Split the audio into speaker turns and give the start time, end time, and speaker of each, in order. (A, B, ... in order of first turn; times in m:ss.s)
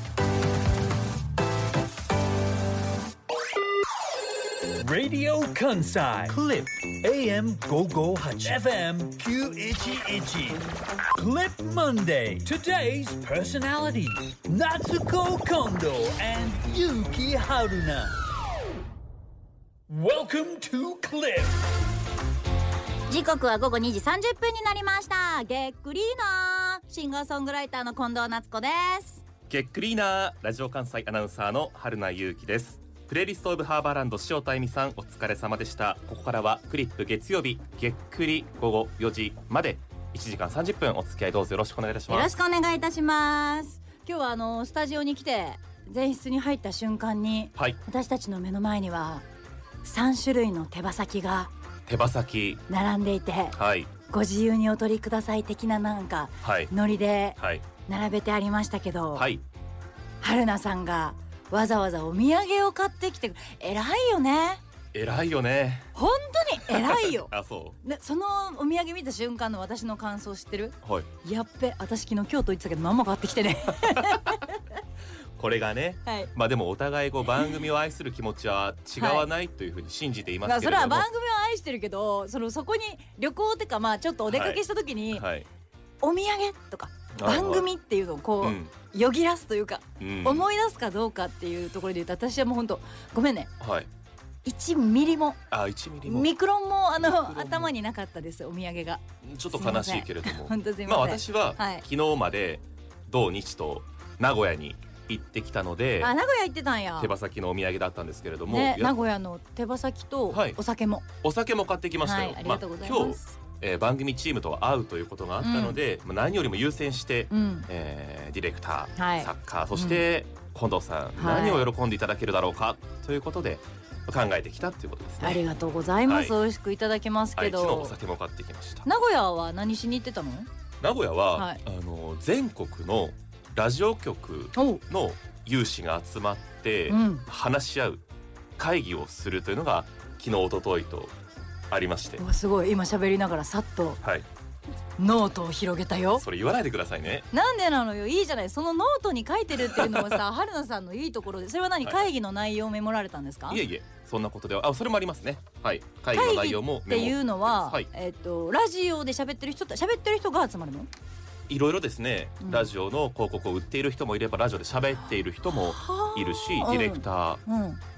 0:04.8-0:10.6 A
0:11.2-0:18.1 A
0:19.9-0:21.5 A
0:23.1-0:29.2 B
0:29.5-0:42.3 C
0:42.1-0:49.2 B
0:49.8-0:51.5 B
0:51.8-0:52.6 C
0:52.7-0:59.3 B
0:53.5-0:53.9 C
0:56.4-0:56.7 C
0:57.4-0:57.6 C
0:59.1-0:59.4 C
1:00.2-1:04.6 B
1:04.9-1:05.9 C
1:05.9-1:07.3 B
1:06.6-1:07.8 C
1:07.8-1:14.6 B
1:10.8-1:11.1 C
1:13.9-1:14.3 C
1:15.4-1:21.1 C
1:19.0-1:19.3 B
1:20.4-1:25.2 B
1:24.3-1:25.5 C
1:26.0-1:33.5 B
1:27.1-1:27.6 C
1:28.4-1:28.7 C
1:30.0-1:30.4 C
1:33.6-1:33.9 C
1:34.4-1:35.4 B
1:35.5-1:36.3 C
1:36.0-1:39.0 B
1:37.0-1:37.7 C
1:39.2-1:46.2 C
1:39.5-1:41.8 B
1:46.0-1:47.1 B
1:47.0-1:48.9 C
1:48.5-1:51.1 B
1:50.3-1:50.6 C
1:51.2-2:05.4 C
1:52.0-1:53.3 B
1:55.4-1:55.8 B
1:57.3-1:57.7 B
1:59.0-2:00.0 B
2:01.2-2:01.7 B
2:05.2-2:08.0 B
2:06.0-2:06.3 C
2:07.3-2:08.8 C
2:08.8-2:10.5 B
2:10.8-2:18.0 C
2:11.3-2:11.6 B
2:14.5-2:14.8 B
2:16.9-2:17.2 B
2:18.6-2:21.1 C
2:21.7-2:22.2 C
2:22.2-2:24.0 B
2:25.0-2:26.2 B
2:26.2-2:27.3 C
2:27.3-2:33.6 B
2:29.7-2:30.2 C
2:31.8-2:32.1 C
2:33.5-2:37.9 C
2:36.1-2:40.9 B
2:41.5-2:47.4 C
2:42.4-2:42.7 B
2:45.5-2:47.8 B